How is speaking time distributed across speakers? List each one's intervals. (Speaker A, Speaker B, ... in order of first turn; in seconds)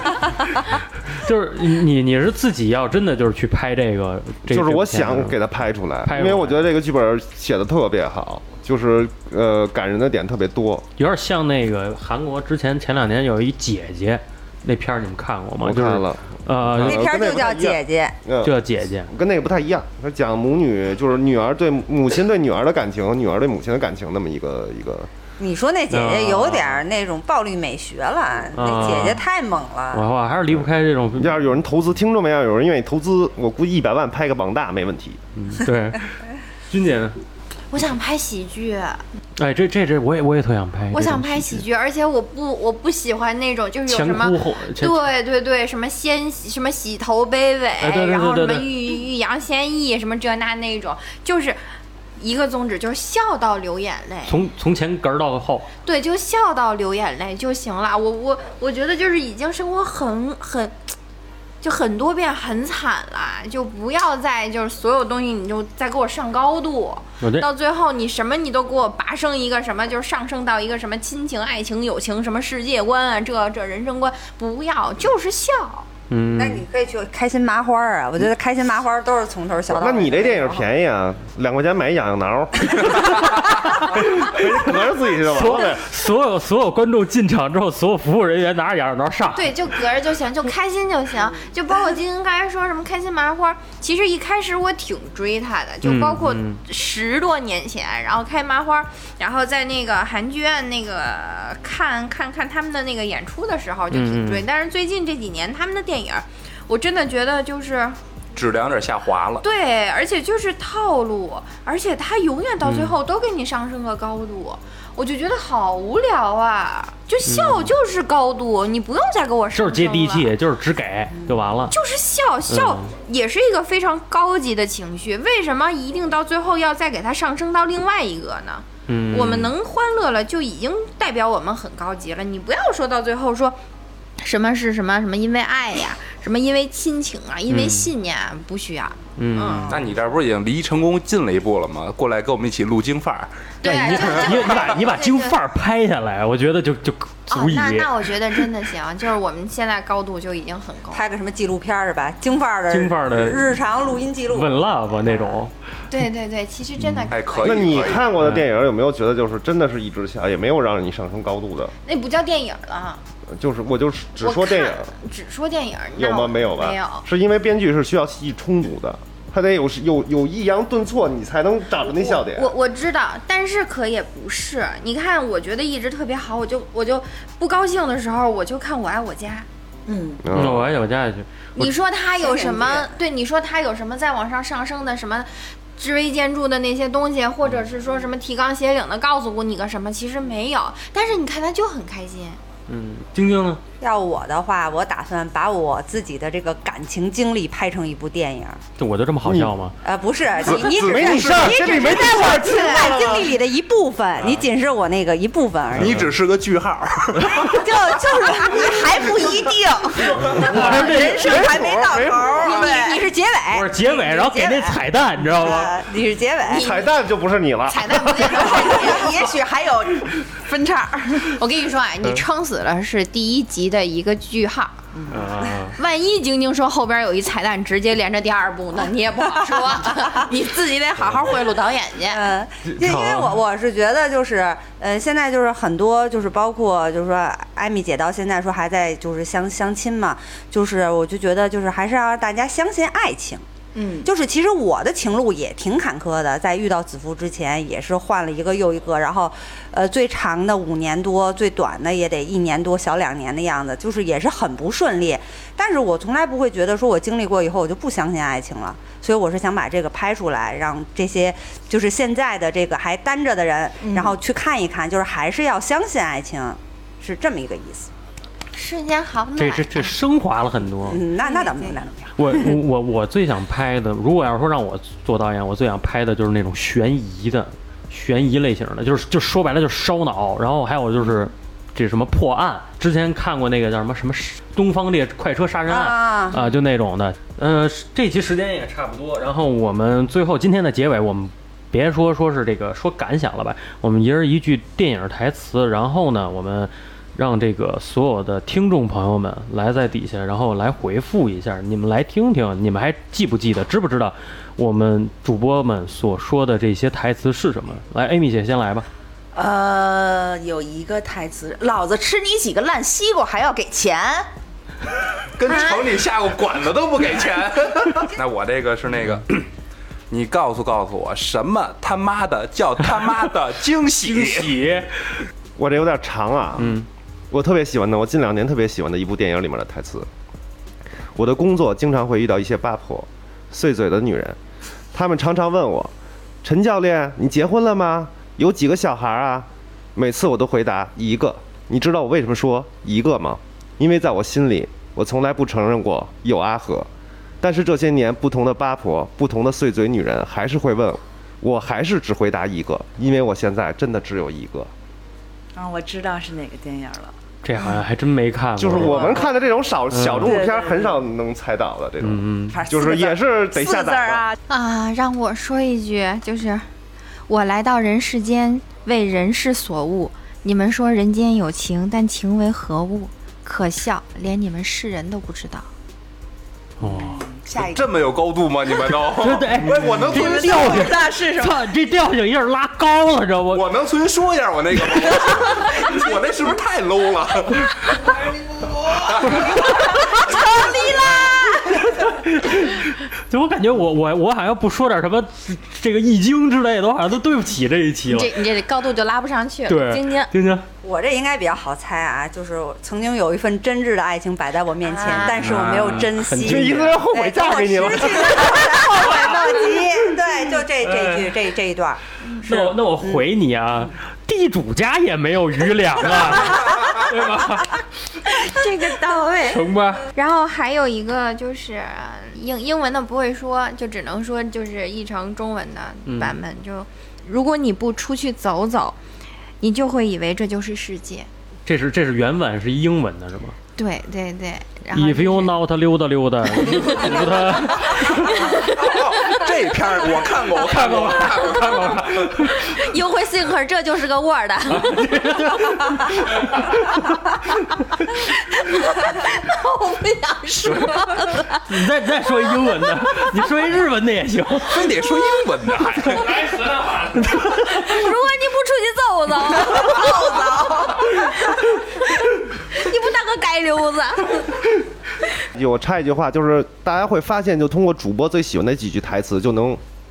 Speaker A: 1.2-5.4, 6.1-6.6, 11.0-17.0, 18.4-19.1, 25.9-26.8, 28.6-29.2, 29.9-31.4, 35.4-36.1, 36.7-37.2, 39.4-41.6, 43.9-45.1, 47.8-48.7, 54.3-55.7, 67.2-67.5, 76.1-76.7, 85.2-89.5, 95.8-96.6, 103.9-104.5, 112.6-112.9, 117.3-117.7, 119.5-121.7, 122.5-122.9, 128.9-129.5, 137.5-137.9, 139.2-139.7, 143.6-147.9, 152.7-153.5, 154.3-155.5, 180.3-181.7, 192.7-193.6, 198.8-199.8, 210.4-211.3, 213.5-215.7, 225.1-225.8, 232.6-233.4, 269.4-271.0, 272.2-308.9, 324.0-324.9, 326.6-326.9, 357.4-359.2, 359.9-360.4, 362.0-362.6, 376.8-377.2, 379.1-383.6, 391.7-398.3, 399.7-400.6, 405.4-407.0, 410.8-411.3, 412.4-417.7, 419.5-420.1, 426.1-426.4, 431.7-433.6, 434.9-438.5, 440.6-442.7, 444.7-446.9, 450.6-454.9, 456.2-457.8
Speaker B: 4.5-10.9, 15.6-18.6, 19.1-25.1, 31.2-35.2, 79.7-85.8, 157.4-161.7, 163.3-164.9, 166.0-172.5, 180.2-180.7, 199.2-199.5, 200.4-203.4, 211.2-212.4, 216.5-218.7, 325.6-326.8, 327.3-330.1, 331.2-334.4, 334.9-335.9, 336.4-346.9, 347.4-354.7, 358.6-364.3, 406.4-409.1, 465.5-469.8
Speaker C: 16.8-18.2, 25.4-30.1, 76.3-80.6, 121.1-121.5, 139.4-139.9, 150.9-154.6, 182.2-182.9, 193.8-198.6, 199.8-206.0, 207.4-209.5, 211.0-216.7, 232.1-243.4, 244.0-267.9, 270.9-272.1, 285.7-286.4, 400.8-413.2
Speaker D: 37.7-39.0, 40.9-51.6, 52.2-54.4, 55.8-60.9, 61.6-75.9, 89.3-108.0, 109.4-120.3, 121.7-133.6, 134.2-139.8, 143.6-145.4, 147.3-151.0, 155.9-157.9, 161.8-163.0, 164.2-167.1, 171.8-179.5, 181.6-192.4, 201.3-203.2, 210.7-211.6, 212.3-213.6, 216.5-216.9, 217.7-219.2, 221.3-224.8, 225.8-232.3, 268.5-269.9, 271.2-271.7, 315.5-315.9, 364.5-366.7, 367.3-375.7, 389.9-391.8, 398.1-400.3, 404.8-405.6, 418.3-429.0, 429.6-431.3, 433.8-435.6, 436.7-437.3, 437.8-439.4, 442.5-445.1, 445.6-446.0, 448.1-451.6, 457.4-464.6
Speaker E: 108.3-109.5, 139.7-143.3, 157.1-158.1, 200.5-201.5, 205.8-207.6, 315.4-319.5, 320.1-324.6, 377.7-380.9, 383.5-388.0, 389.0-389.6, 438.6-442.4, 454.7-456.5
Speaker F: 179.9-180.2, 207.5-212.9, 218.2-221.4, 224.9-225.2, 243.8-244.1, 263.8-264.2, 309.3-314.3, 355.6-357.1, 358.7-359.3, 360.2-361.0, 362.5-364.4, 376.8-377.9, 380.0-380.8, 459.8-460.4